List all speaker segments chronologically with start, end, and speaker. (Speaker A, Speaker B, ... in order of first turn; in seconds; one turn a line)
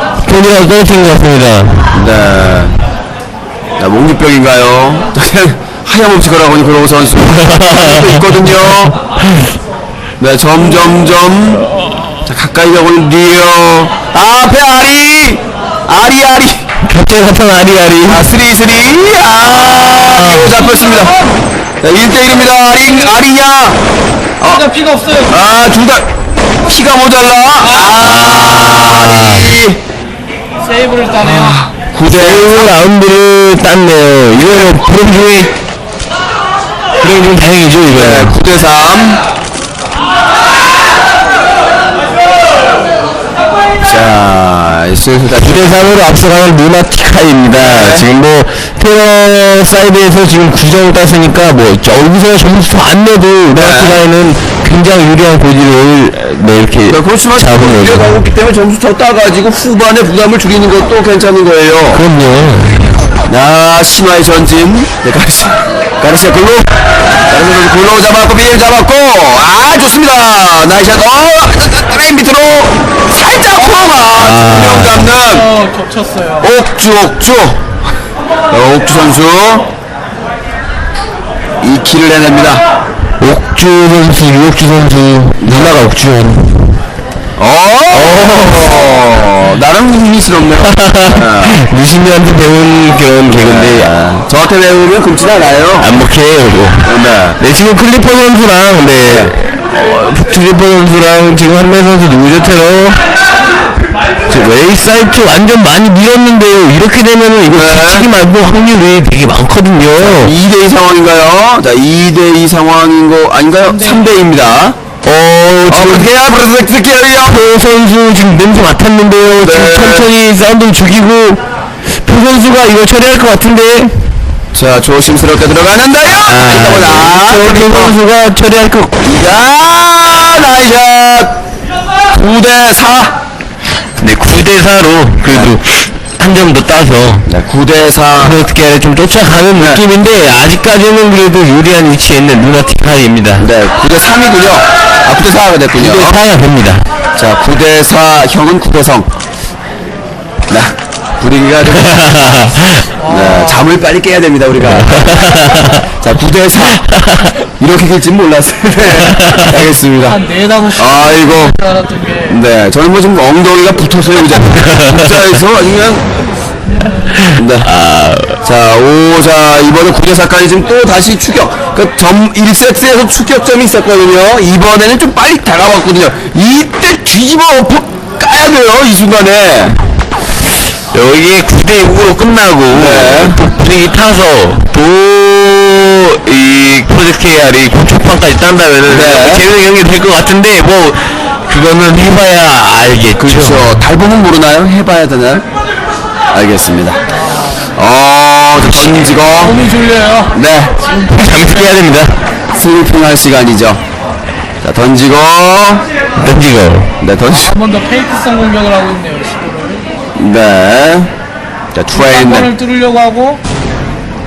Speaker A: 0.2-1.9
Speaker B: 1.9-2.8
Speaker B: 3.8-8.9
Speaker A: 7.3-9.0
Speaker B: 10.2-11.7
Speaker B: 12.3-16.6
Speaker A: 16.9-18.2
Speaker B: 18.1-21.1
Speaker A: 19.9-20.6
Speaker C: 20.6-21.4
Speaker B: 21.8-23.8
Speaker C: 24.4-25.4
Speaker B: 25.3-26.1
Speaker B: 26.7-29.8
Speaker A: 28.0-29.5
Speaker C: 30.6-31.7
Speaker B: 31.3-32.7
Speaker A: 32.1-35.5
Speaker A: 37.0-38.3
Speaker B: 37.9-39.2
Speaker B: 43.8-45.7
Speaker A: 45.4-58.1
Speaker B: 47.5-48.1
Speaker B: 53.5-54.0
Speaker B: 56.9-62.0
Speaker A: 61.9-63.0
Speaker B: 63.2-66.7
Speaker B: 67.3-75.5
Speaker A: 74.2-75.1
Speaker C: 75.2-76.5
Speaker B: 76.4-77.7
Speaker B: 78.5-79.7
Speaker B: 81.6-82.6
Speaker A: 83.2-86.8
Speaker B: 85.4-85.9
Speaker B: 87.4-91.6
Speaker A: 87.9-89.1
Speaker A: 90.7-93.9
Speaker B: 93.3-95.9
Speaker A: 95.8-103.0
Speaker B: 96.8-97.4
Speaker B: 99.1-99.3
Speaker A: 104.3-110.3
Speaker B: 107.5-108.1
Speaker B: 110.1-114.8
Speaker C: 113.7-114.0
Speaker A: 115.0-116.1
Speaker B: 115.7-117.5
Speaker A: 117.3-124.0
Speaker B: 119.3-120.1
Speaker B: 124.5-128.0
Speaker A: 126.2-129.0
Speaker B: 129.0-131.3
Speaker B: 132.1-133.1
Speaker A: 134.0-137.3
Speaker B: 135.3-135.6
Speaker B: 137.3-138.3
Speaker A: 138.2-143.5
Speaker B: 139.6-139.8
Speaker B: 143.4-146.2
Speaker A: 145.7-146.8
Speaker B: 147.2-149.1
Speaker B: 150.5-152.5
Speaker A: 151.8-152.8
Speaker C: 153.0-153.7
Speaker B: 153.1-156.8
Speaker A: 154.8-155.7
Speaker C: 155.3-155.8
Speaker A: 156.8-157.3
Speaker B: 157.4-160.2
Speaker C: 160.1-162.4
Speaker B: 160.8-161.6
Speaker B: 162.3-166.0
Speaker A: 164.4-165.4
Speaker A: 167.1-168.4
Speaker B: 167.3-167.7
Speaker B: 168.4-179.8
Speaker A: 180.9-193.7
Speaker B: 182.7-183.4
Speaker B: 188.9-189.4
Speaker B: 193.2-195.4
Speaker B: 196.3-197.0
Speaker C: 197.1-197.7
Speaker B: 197.8-199.6
Speaker A: 198.6-199.2
Speaker C: 199.4-201.8
Speaker B: 200.3-200.8
Speaker A: 201.1-202.2
Speaker B: 202.5-203.8
Speaker B: 204.6-205.8
Speaker A: 206.2-206.9
Speaker B: 207.0-207.5
Speaker C: 207.3-209.8
Speaker B: 210.2-211.1
Speaker B: 211.7-212.5
Speaker C: 211.9-213.4